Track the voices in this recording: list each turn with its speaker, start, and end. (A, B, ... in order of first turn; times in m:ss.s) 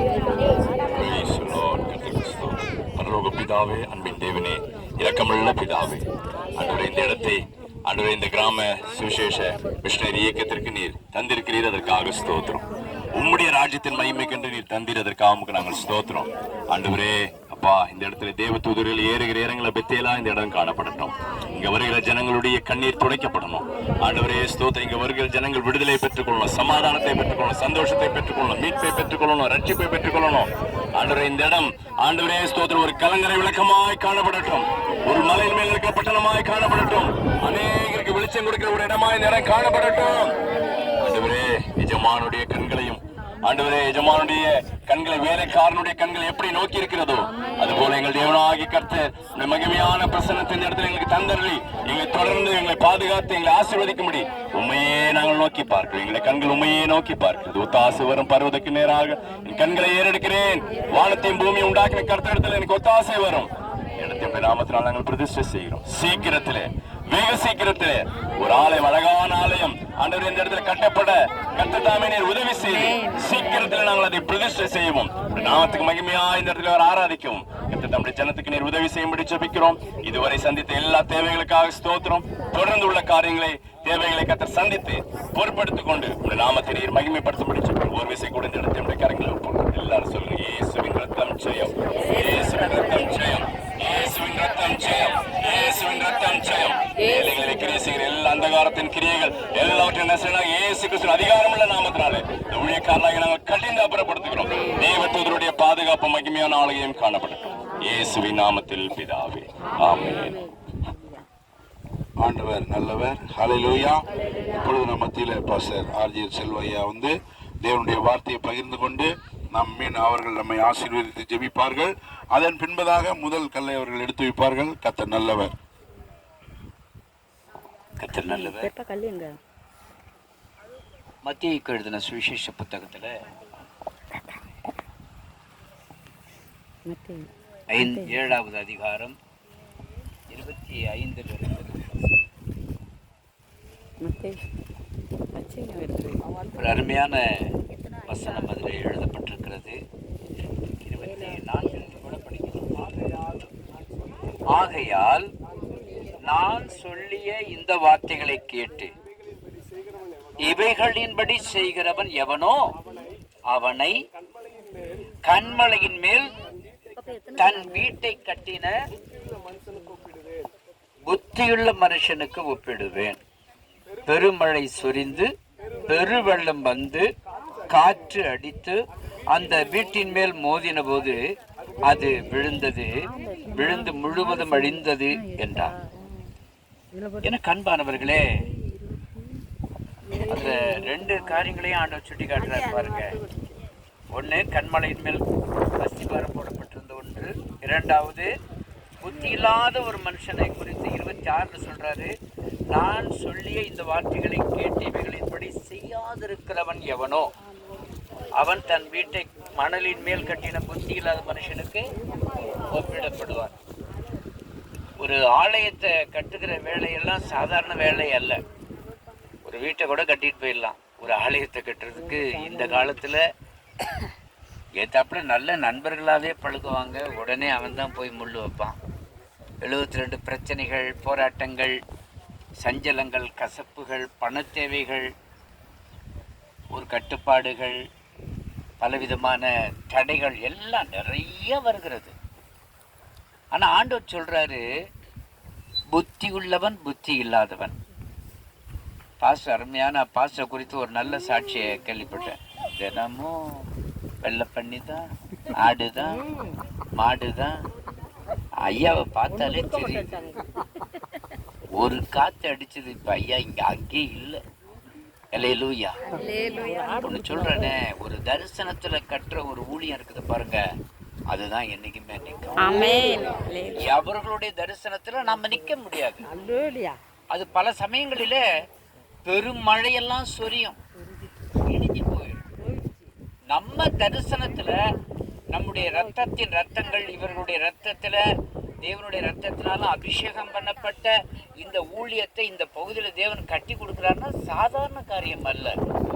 0:00.9-0:12.6 A
0:13.2-0:40.4 A
0:41.0-1:50.4 A
1:12.7-1:13.3 B
1:52.2-1:54.0 C
1:54.6-2:05.5 C
2:08.0-2:08.7 D
2:08.3-2:09.3 B
2:11.2-2:13.1 D
2:16.9-2:17.3 B
2:17.7-2:19.2 D
2:17.8-2:18.1 B
2:20.3-2:21.9 D
2:24.0-2:24.4 B
2:25.3-2:26.2 B
2:26.5-2:27.2 D
2:28.1-2:29.8 D
2:30.8-2:33.2 D
2:34.5-2:35.3 D
2:36.3-2:38.9 D
2:40.4-2:42.6 D
2:43.5-2:44.0 D
2:45.3-2:46.3 D
2:47.3-2:48.7 D
2:51.1-2:53.2 D
2:54.1-2:55.3 D
2:55.9-2:57.0 D
2:57.7-2:58.8 D
2:59.3-3:01.2 D
3:01.9-3:02.9 D
3:03.5-3:05.7 D
3:07.2-3:08.2 D
3:10.2-3:13.2 D
3:14.1-3:15.2 D
3:15.8-3:18.3 D
3:19.0-3:22.1 D
3:22.7-3:27.3 D
3:28.4-3:31.8 D
3:32.7-3:33.5 D
3:35.0-3:38.4 D
3:39.4-3:43.2 D
3:44.8-3:48.7 D
3:49.6-3:51.7 D
3:52.6-3:55.1 D
3:56.7-3:57.8 D
3:58.8-4:02.1 D
4:03.5-4:04.6 D
4:05.9-4:07.7 D
4:09.2-4:13.3 D
4:14.2-4:15.0 D
4:15.6-4:16.2 D
4:17.0-4:17.5 D
4:18.7-4:20.1 D
4:21.8-4:24.4 D
4:25.3-4:26.0 D
4:26.3-4:27.0 B
4:27.0-4:30.6 D
4:31.3-4:32.9 D
4:32.6-4:33.9 B
4:33.7-4:36.2 D
4:37.3-4:38.4 D
4:39.2-4:40.8 D
4:41.7-4:42.4 D
4:43.5-4:44.7 D
4:45.5-4:48.2 D
4:48.8-4:55.8 D